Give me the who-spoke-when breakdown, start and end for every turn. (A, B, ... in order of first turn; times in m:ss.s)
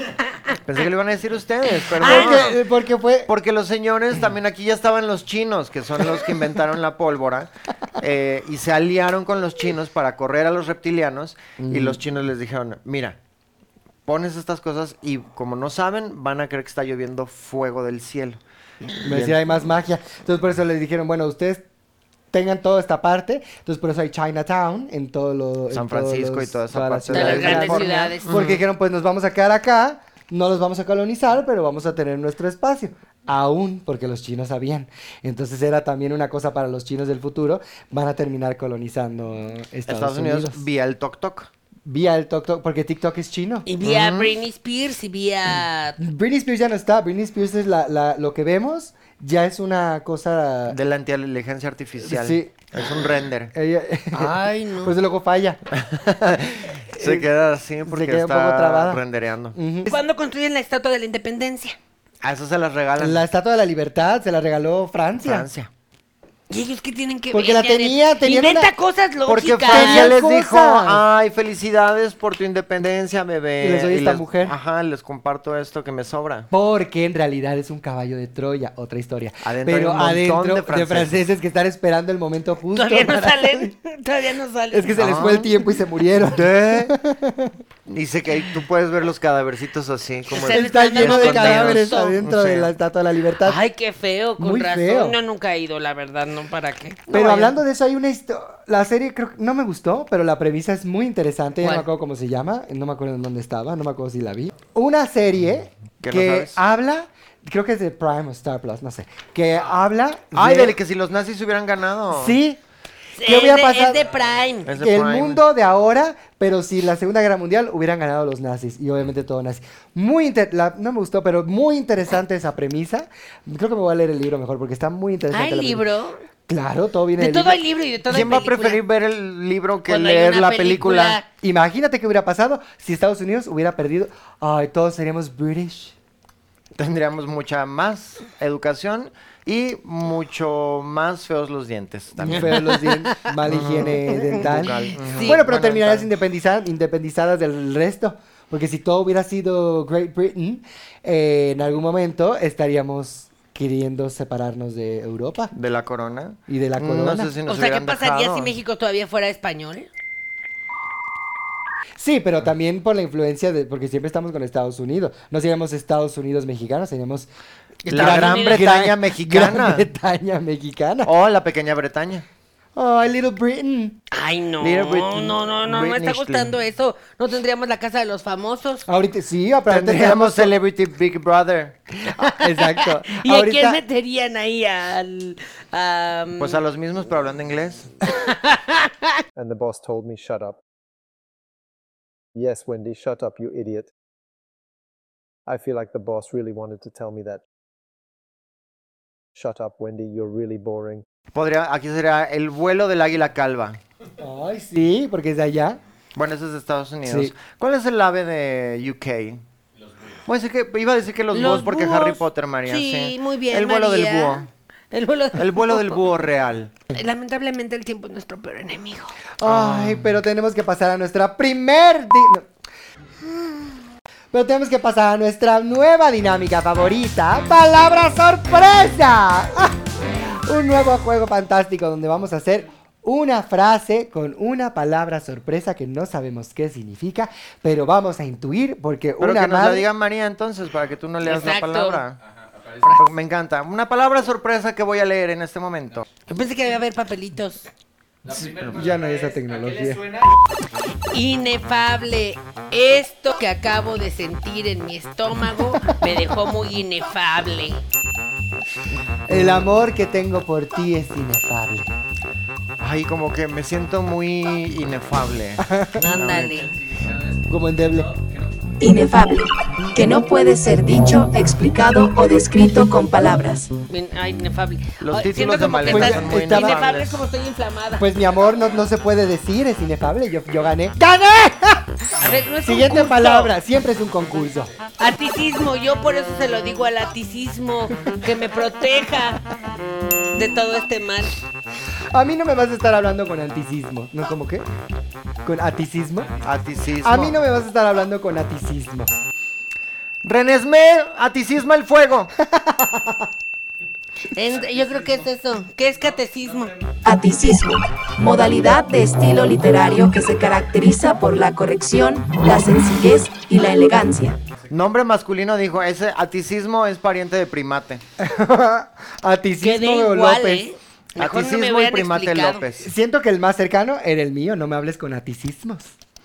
0:00.6-0:02.6 A
0:01.8-0:02.5 B
0:02.0-0:03.3 C
0:03.3-0:13.2 A
0:11.6-0:12.0 C
0:14.1-0:18.4 A
0:19.0-0:19.4 A
0:19.0-0:21.6 C
0:22.3-0:40.6 C
0:25.7-0:28.6 A
0:27.1-0:28.3 B
0:39.9-0:41.5 A
0:41.8-0:43.7 C
0:43.6-0:46.0 B
0:43.8-0:44.4 A
0:46.0-0:50.8 C
0:50.7-0:53.5 A
0:52.0-0:52.5 C
0:53.5-0:55.6 C
0:54.1-0:55.0 B
0:55.7-0:59.6 A
0:56.9-0:57.3 C
0:57.9-0:59.0 C
0:59.5-1:00.0 C
0:59.8-1:01.8 B
1:02.2-1:03.2 A
1:03.0-1:05.5 C
1:05.2-1:05.7 A
1:06.5-1:10.1 B
1:07.3-1:08.7 C
1:09.3-1:16.5 A
1:09.7-1:11.0 C
1:13.6-1:14.6 C
1:16.5-1:23.7 C
1:19.4-1:21.2 A
1:22.7-1:25.4 B
1:24.7-1:27.6 C
1:25.0-1:25.5 A
1:26.3-1:26.9 A
1:27.9-1:32.7 A
1:30.3-1:32.2 B
1:30.3-1:33.6 C
1:33.4-1:37.6 B
1:34.4-1:35.2 C
1:37.1-1:50.8 C
1:46.0-1:46.6 A
1:50.3-1:52.4 A
1:52.1-1:52.6 C
1:53.2-1:54.7 B
1:53.2-1:54.0 C
1:54.6-1:55.4 A
1:54.7-2:05.8 C
2:05.3-2:06.2 B
2:06.5-2:07.6 C
2:07.2-2:08.8 B
2:08.1-2:11.2 A
2:09.9-2:11.3 B
2:11.4-2:15.9 C
2:16.8-2:22.5 A
2:22.2-2:35.5 C
2:22.3-2:23.3 B
2:23.4-2:26.1 A
2:24.9-2:25.4 B
2:35.5-2:38.5 A
2:36.5-2:37.3 C
2:37.4-2:39.9 B
2:42.0-2:47.3 C
2:47.8-2:51.1 C
2:47.9-2:49.8 A
2:47.9-2:48.6 B
2:51.0-2:52.2 A
2:52.7-2:54.0 C
2:54.1-2:58.8 B
2:54.6-2:56.5 A
2:58.9-3:00.5 C
2:59.7-3:01.8 A
3:02.1-3:06.6 B
3:02.2-3:03.8 C
3:06.4-3:07.9 A
3:08.2-3:09.1 B
3:09.4-3:10.6 D
3:12.4-3:13.9 D
3:15.5-3:17.4 D
3:19.4-3:21.0 D
3:21.3-3:23.8 A
3:24.2-3:25.8 C
3:26.2-3:29.4 A
3:27.0-3:27.3 C
3:30.2-3:34.5 A
3:31.3-3:36.0 B
3:35.3-3:36.7 A
3:36.9-3:39.2 B
3:39.4-3:42.5 C
3:39.4-3:40.0 A
3:44.3-3:49.8 C
3:50.4-3:59.9 C
3:59.2-4:02.2 A
4:01.2-4:02.0 B
4:02.8-4:03.1 B
4:02.8-4:06.1 A
4:06.3-4:07.7 B
4:08.2-4:10.3 C
4:11.1-4:17.8 B
4:19.3-4:21.9 C
4:22.8-4:26.7 A
4:25.6-4:26.0 C
4:26.0-4:26.8 B
4:27.4-4:28.2 C
4:28.8-4:33.7 E
4:33.9-4:38.1 B
4:35.0-4:37.2 A
4:35.8-4:36.8 C
4:38.0-4:41.9 C
4:42.2-4:43.5 B
4:42.6-4:44.7 C
4:45.0-4:49.4 B
4:50.3-4:51.3 B
4:52.1-4:54.6 C
4:55.4-4:56.4 C
4:56.4-4:57.4 A
4:57.0-4:59.2 C
5:00.2-5:02.3 A
5:02.4-5:03.3 C
5:04.3-5:06.8 B
5:07.0-5:14.4 E
5:14.7-5:18.0 A
5:18.2-5:20.6 C
5:19.6-5:22.6 B
5:21.2-5:22.9 A
5:22.8-5:25.9 C